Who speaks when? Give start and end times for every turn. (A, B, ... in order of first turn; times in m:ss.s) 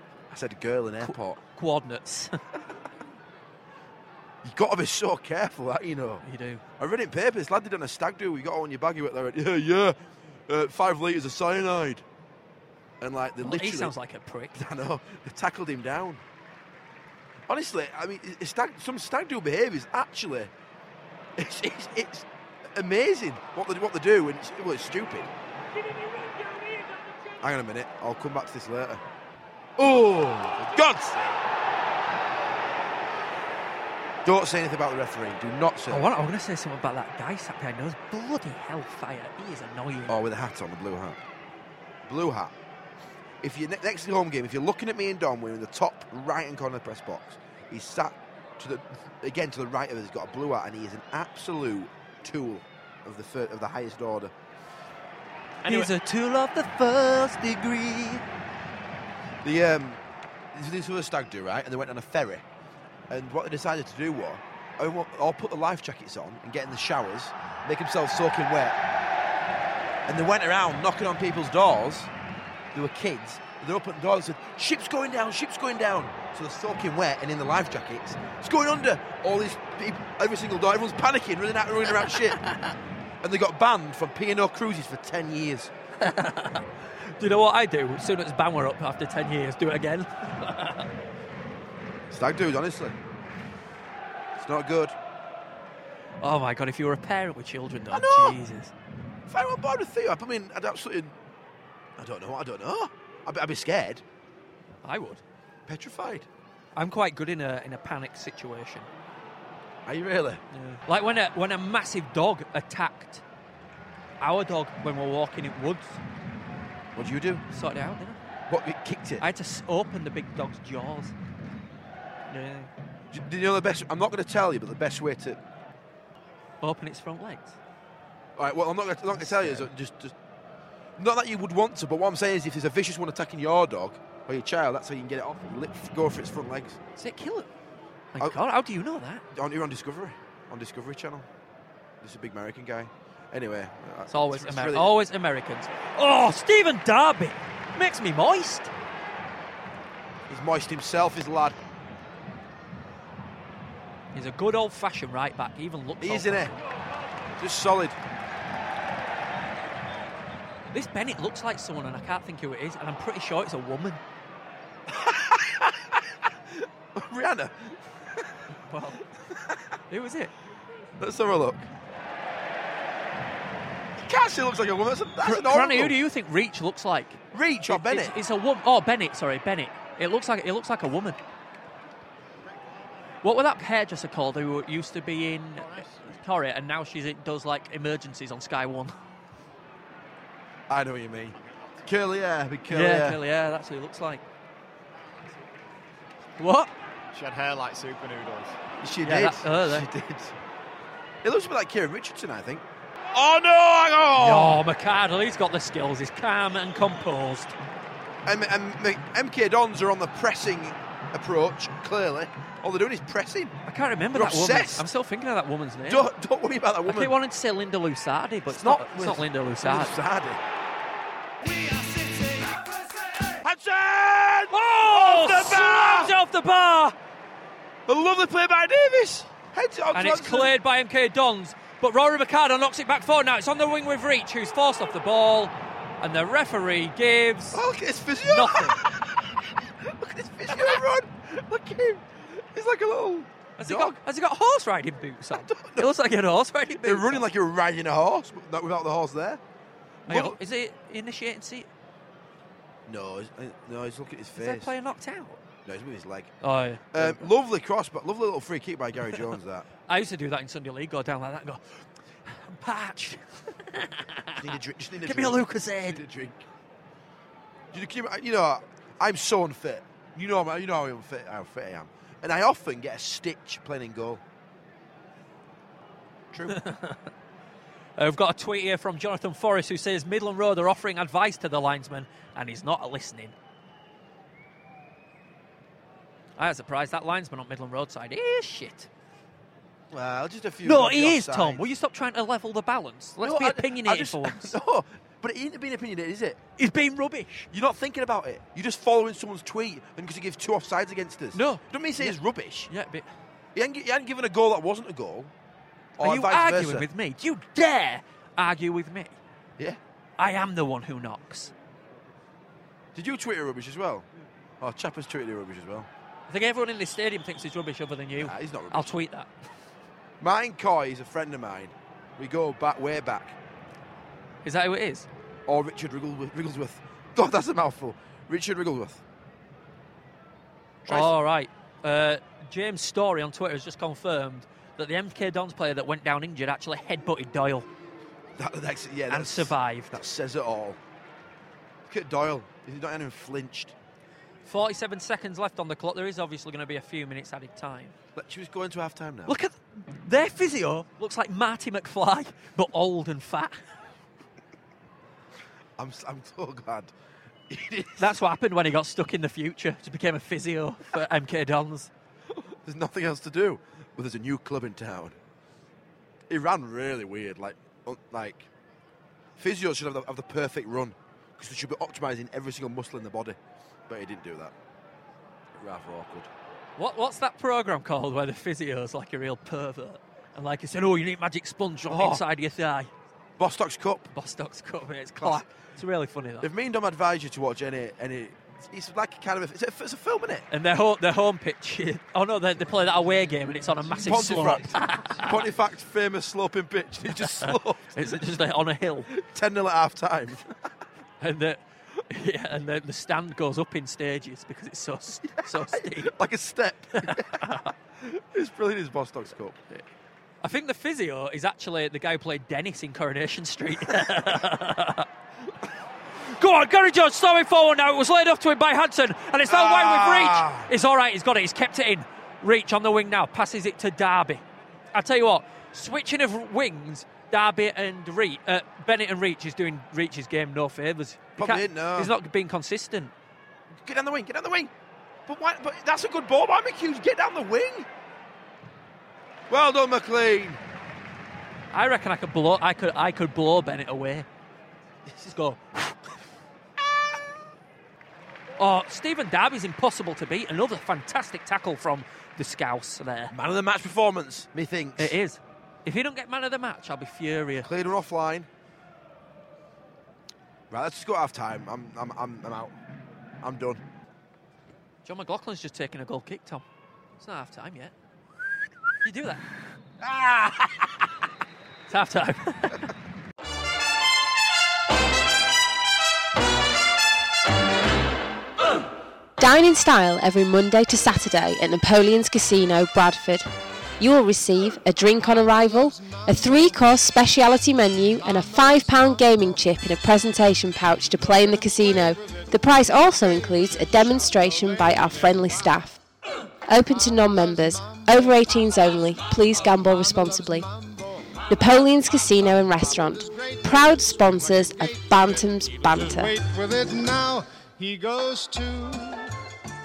0:00.3-0:01.4 A
0:01.0-0:02.4 B
0:04.4-0:06.2 A
0:06.2-0:06.6 B
0:06.8-0:10.0 A
0:10.5-0:12.0 A
0:13.0-0:14.0 A
0:13.4-0:14.6 B
0:14.5-0:16.2 A
0:17.5-0:20.5 A
0:21.4-0:25.3 A
0:25.8-0:27.4 B
0:27.4-0:29.0 A
0:29.8-0:31.4 A
0:34.2-0:36.1 A
0:35.9-0:40.2 B
0:40.1-0:41.2 A
0:42.1-0:42.5 A
0:43.4-0:54.3 A
0:55.6-0:55.9 A
0:55.6-0:58.2 B
0:59.4-1:00.0 A
1:00.5-1:02.4 A
1:03.1-1:08.8 A
1:10.1-1:12.1 A
1:12.7-1:22.4 A
1:22.4-1:22.7 B
1:23.2-1:25.7 A
1:26.0-1:30.9 B
1:32.1-1:33.0 A
1:34.4-1:35.0 A
1:36.2-1:38.7 B
1:37.9-1:38.4 A
1:39.3-1:41.2 A
1:42.0-1:44.0 A
1:44.8-1:45.2 B
1:45.7-1:46.3 A
1:46.8-1:48.9 B
1:49.9-1:50.4 A
1:50.5-1:53.2 B
1:54.2-1:56.0 B
1:57.0-1:57.4 A
1:57.5-1:58.2 B
1:58.5-1:59.3 A
1:59.2-2:01.1 B
2:02.3-2:02.7 B
2:03.1-2:05.4 A
2:06.6-2:07.6 B
2:08.4-2:10.2 A
2:09.2-2:09.7 B
2:11.0-2:16.8 A
2:17.0-2:17.5 B
2:18.1-2:19.2 B
2:19.3-2:21.3 A
2:22.0-2:25.0 A
2:24.1-2:28.7 B
2:30.3-2:31.6 A
2:34.1-2:36.6 B
2:36.0-2:36.6 A
2:37.4-2:38.0 A
2:40.7-2:44.0 B
2:44.9-2:48.4 A
2:48.6-2:49.1 B
2:49.3-2:49.6 A
2:49.9-2:50.3 B
2:51.0-2:51.7 A
2:54.0-2:56.0 A
2:55.2-3:01.2 B
2:57.3-2:58.2 A
3:03.2-3:09.0 B
3:10.7-3:13.2 A
3:12.7-3:14.2 B
3:16.4-3:16.7 B
3:17.1-3:18.6 C
3:18.8-3:20.4 A
3:19.0-3:19.9 B
3:21.2-3:24.6 A
3:24.2-3:27.6 B
3:28.3-3:33.6 A
3:33.7-3:36.1 B
3:34.1-3:34.9 A
3:35.9-3:37.2 A
3:36.9-3:40.0 B
3:38.5-3:40.4 A
3:41.4-3:43.4 C
3:43.4-3:46.2 A
3:44.5-3:47.0 B
3:47.9-3:50.6 A
3:49.9-3:57.6 B
3:57.5-4:04.0 A
3:58.2-3:58.8 B
4:03.6-4:07.3 B
4:05.3-4:05.9 A
4:06.8-4:09.4 A
4:10.1-4:10.4 A
4:10.1-4:11.7 B
4:12.9-4:14.7 A
4:14.4-4:15.4 B
4:15.6-4:16.3 A
4:16.4-4:17.3 B
4:16.9-4:19.7 A
4:19.9-4:24.5 B
4:24.3-4:26.5 A
4:25.0-4:26.0 B
4:27.7-4:34.2 A
4:36.3-4:36.6 A
4:36.5-4:37.1 B
4:38.0-4:43.3 B
4:46.4-4:48.9 B
4:49.9-4:51.6 A
4:50.6-4:54.6 B
4:53.2-4:56.4 A
4:56.6-4:57.5 B
4:57.5-5:02.7 A
5:01.3-5:03.1 B
5:03.6-5:05.3 A
5:06.0-5:06.9 A
5:06.0-5:09.2 B
5:10.2-5:11.5 B
5:13.0-5:14.1 A
5:14.6-5:15.9 A
5:16.3-5:19.3 B
5:18.2-5:19.0 A
5:20.2-5:23.4 A
5:24.4-5:25.1 B
5:25.5-5:29.0 A
5:30.8-5:31.2 A
5:30.9-5:37.7 B
5:38.4-5:40.8 A
5:39.1-5:40.0 B
5:41.9-5:43.8 A
5:44.4-5:48.0 B
5:48.2-5:49.4 A
5:49.3-5:53.6 B
5:55.8-5:56.9 A
5:57.5-5:58.2 A
5:58.0-6:01.9 B
6:02.4-6:05.2 A
6:06.3-6:08.5 A
6:09.4-6:14.5 A
6:15.6-6:16.3 A
6:16.8-6:22.9 B
6:21.9-6:22.2 A
6:23.4-6:24.1 A
6:24.1-6:26.5 B
6:25.2-6:25.4 A
6:26.4-6:30.5 A
6:30.5-6:35.4 B
6:34.0-6:38.0 A
6:37.1-6:39.1 B
6:39.1-6:40.5 A
6:41.2-6:46.2 B
6:45.4-6:49.6 A
6:47.0-6:47.7 B
6:50.4-6:55.1 B
6:56.3-7:13.1 B
6:59.5-7:00.7 A
7:11.4-7:12.1 A
7:13.8-7:14.7 A
7:15.3-7:17.9 A
7:19.5-7:20.6 A
7:21.7-7:24.3 B
7:25.3-7:26.0 B
7:28.6-7:33.3 B
7:33.3-7:35.2 A
7:35.0-7:37.7 B
7:37.6-7:38.5 A
7:40.7-7:42.8 A
7:43.4-7:43.8 A
7:45.0-7:46.6 B
7:47.2-7:47.9 B
7:49.0-7:49.4 B
7:50.0-7:50.8 A
7:51.9-7:52.9 B
7:59.4-8:03.5 D
8:04.0-8:16.0 D
8:16.7-8:20.7 D
8:21.5-8:26.4 D
8:26.2-8:29.3 E